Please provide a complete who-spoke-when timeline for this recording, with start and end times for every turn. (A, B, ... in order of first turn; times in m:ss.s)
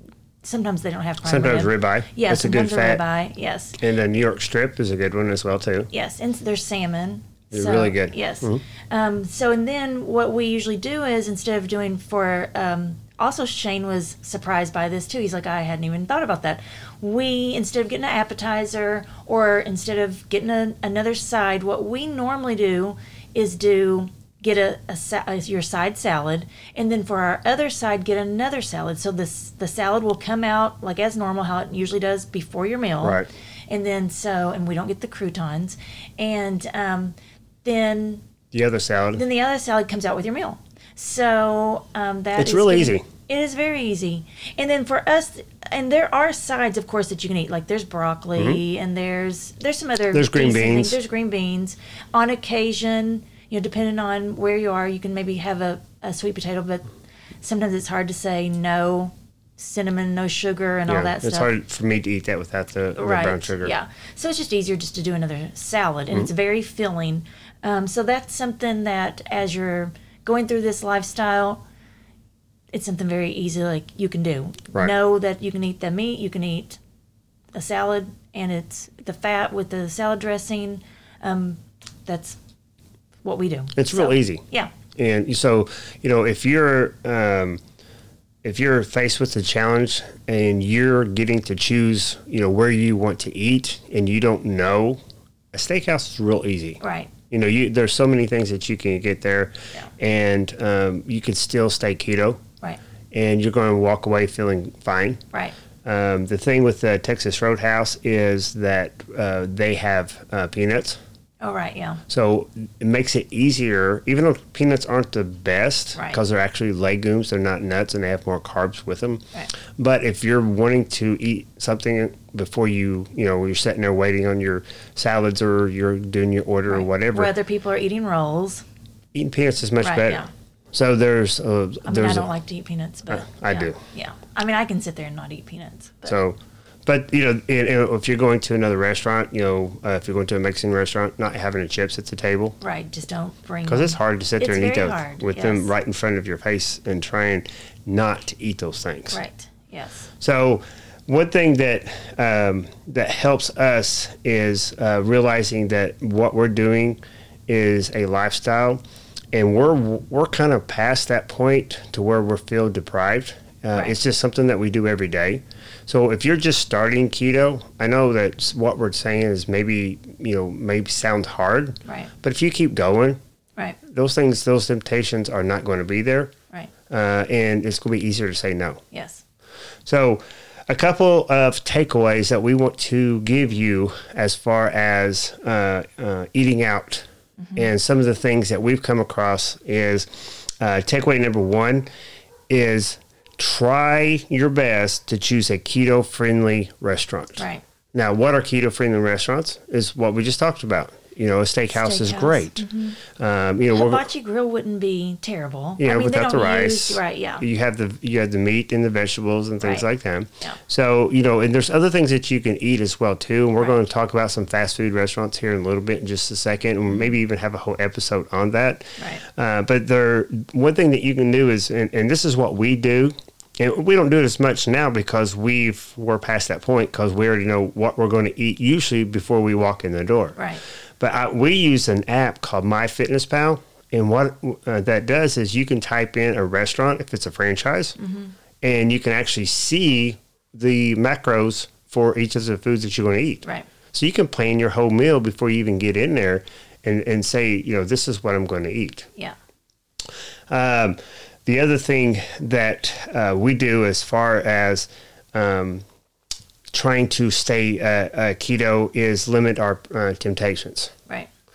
0:00.4-0:03.8 A
0:01.2-0:03.0 B
0:03.8-0:05.9 B
0:05.9-0:38.2 A
0:07.5-0:08.6 B
0:33.0-0:33.3 B
0:38.5-0:39.2 B
0:39.2-0:56.9 A
0:42.4-0:43.1 B
0:50.1-0:51.0 B
0:57.4-1:01.5 A
1:00.9-1:03.8 B
1:03.0-1:11.6 A
1:12.7-1:16.8 A
1:17.5-1:22.4 A
1:23.2-1:24.7 A
1:23.8-1:27.6 B
1:28.4-1:35.0 B
1:35.5-1:42.4 B
1:36.8-1:37.1 A
1:43.1-1:45.2 B
1:45.8-1:51.0 B
1:51.4-1:52.0 A
1:52.1-2:07.3 B
2:06.7-2:08.6 A
2:09.1-2:12.3 B
2:09.8-2:10.3 A
2:11.8-2:16.2 A
2:13.1-2:13.8 B
2:16.1-2:22.6 B
2:22.6-2:25.7 A
2:23.7-2:29.2 B
2:29.1-2:30.1 A
2:30.2-2:38.8 B
2:39.3-2:53.2 B
2:51.8-2:52.1 A
2:53.8-2:56.3 B
2:56.9-2:58.8 B
2:58.9-2:59.2 A
2:59.9-3:11.9 B
3:07.4-3:07.7 A
3:12.5-3:24.1 B
3:17.4-3:17.6 A
3:21.7-3:23.0 A
3:23.7-3:27.4 A
3:25.8-3:50.4 B
3:39.0-3:39.2 A
3:50.4-3:50.6 A
3:51.0-3:58.0 B
3:58.0-3:58.3 A
3:58.6-4:09.1 B
4:10.5-4:15.8 B
4:16.7-4:20.9 B